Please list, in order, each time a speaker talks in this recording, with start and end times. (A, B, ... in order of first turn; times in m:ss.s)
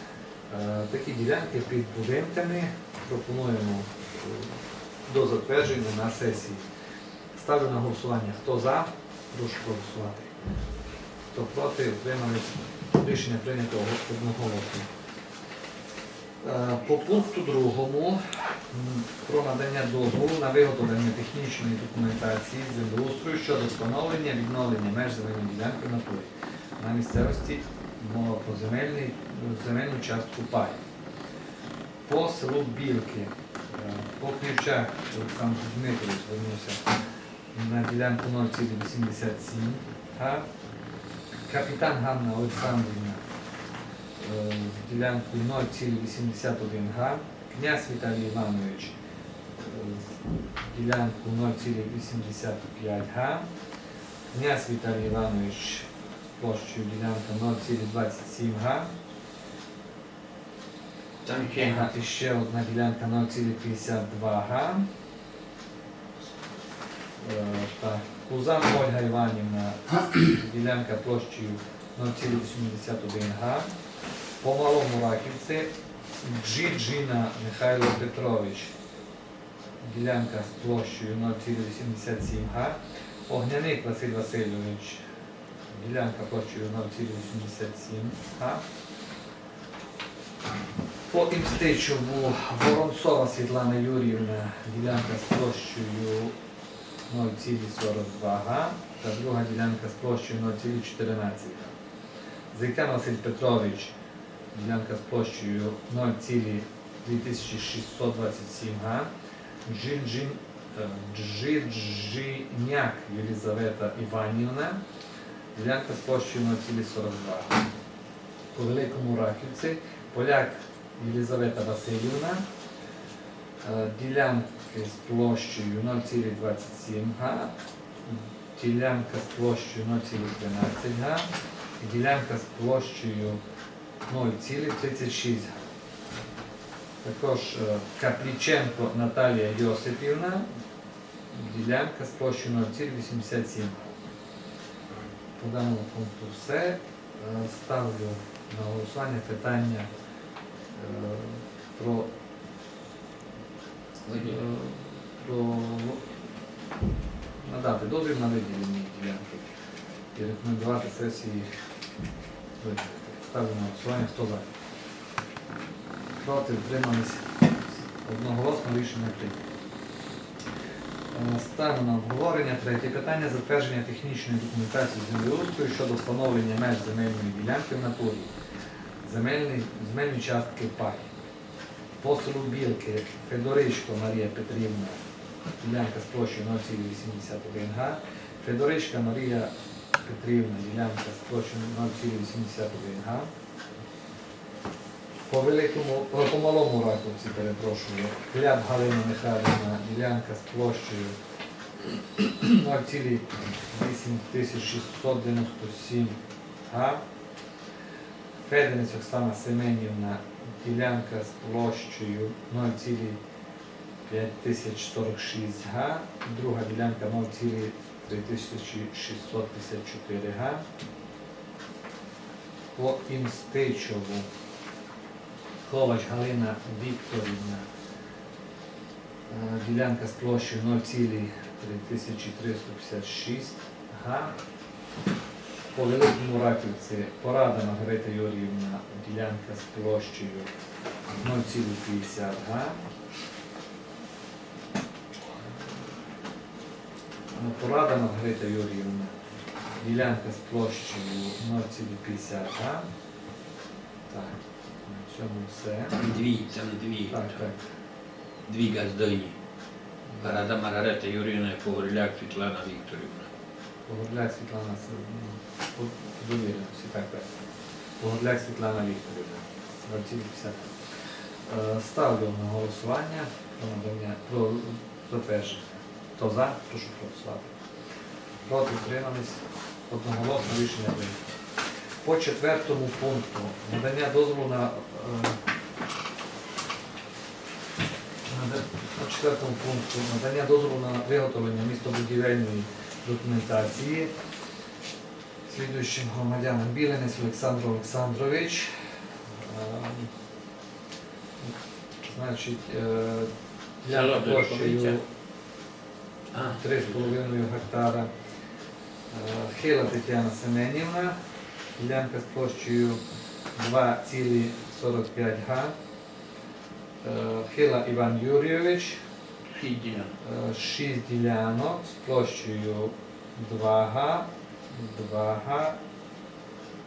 0:00.5-0:06.6 A
0:07.4-0:10.3 A
0:11.3-0:14.9 A
0:16.4-0:30.8 A
0:32.1-0:36.9 A
0:37.5-0:40.4 A
0:41.5-0:43.2 A
0:44.2-0:48.9 A
0:49.6-0:50.1 A
0:50.6-0:53.5 A
0:54.3-0:55.9 A
0:56.4-0:58.9 A
1:01.2-1:01.9 B
1:01.6-1:04.9 A
1:07.2-1:13.7 A
1:14.4-1:15.7 A
1:16.2-1:18.7 A
1:19.8-1:22.8 A
1:23.3-1:25.0 A
1:25.7-1:28.6 A
1:31.1-1:36.3 A
1:37.1-1:41.7 A
1:42.5-1:43.9 A
1:44.5-1:49.1 A
1:49.6-1:54.8 A
1:55.6-1:57.6 A
1:58.5-2:02.4 A
2:03.6-2:07.5 A
2:08.1-2:11.3 A
2:11.8-2:13.4 A
2:14.1-2:15.5 A
2:17.0-2:20.4 A
2:21.3-2:23.9 A
2:25.4-2:29.9 A
2:30.7-2:32.1 A
2:34.1-2:34.3 B
2:34.1-2:36.0 A
2:37.4-2:39.5 A
2:40.2-2:41.5 A
2:42.6-2:44.5 A
2:46.2-2:49.4 A
2:51.1-2:58.3 A
2:59.0-3:01.1 A
3:02.0-3:05.0 A
3:05.6-3:09.5 A
3:10.0-3:13.3 A
3:15.3-3:21.1 A
3:21.8-3:27.0 A
3:28.4-3:33.2 A
3:34.1-3:40.6 A
3:42.8-3:44.3 A
3:45.6-3:47.6 A
3:49.3-3:54.4 A
3:55.7-4:00.5 A
4:01.2-4:02.8 A
4:07.3-4:09.1 A
4:09.8-4:12.9 A
4:14.1-4:16.0 A
4:16.0-4:17.5 B
4:17.1-4:17.6 A
4:18.5-4:19.4 B
4:20.1-4:20.4 A
4:20.2-4:23.3 B
4:23.9-4:27.3 A
4:28.0-4:30.8 A
4:31.5-4:37.5 A
4:38.4-4:41.2 A
4:42.0-4:45.4 A
4:48.3-4:54.1 A
4:55.5-4:58.7 A
4:59.4-5:00.1 A
5:02.0-5:03.3 A
5:03.8-5:05.0 A
5:03.9-5:05.0 B
5:06.3-5:06.6 B
5:06.5-5:08.1 A
5:09.1-5:11.2 A
5:11.8-5:13.0 A
5:13.6-5:15.7 A
5:17.0-5:19.0 A
5:19.5-5:20.1 B
5:20.2-5:25.8 A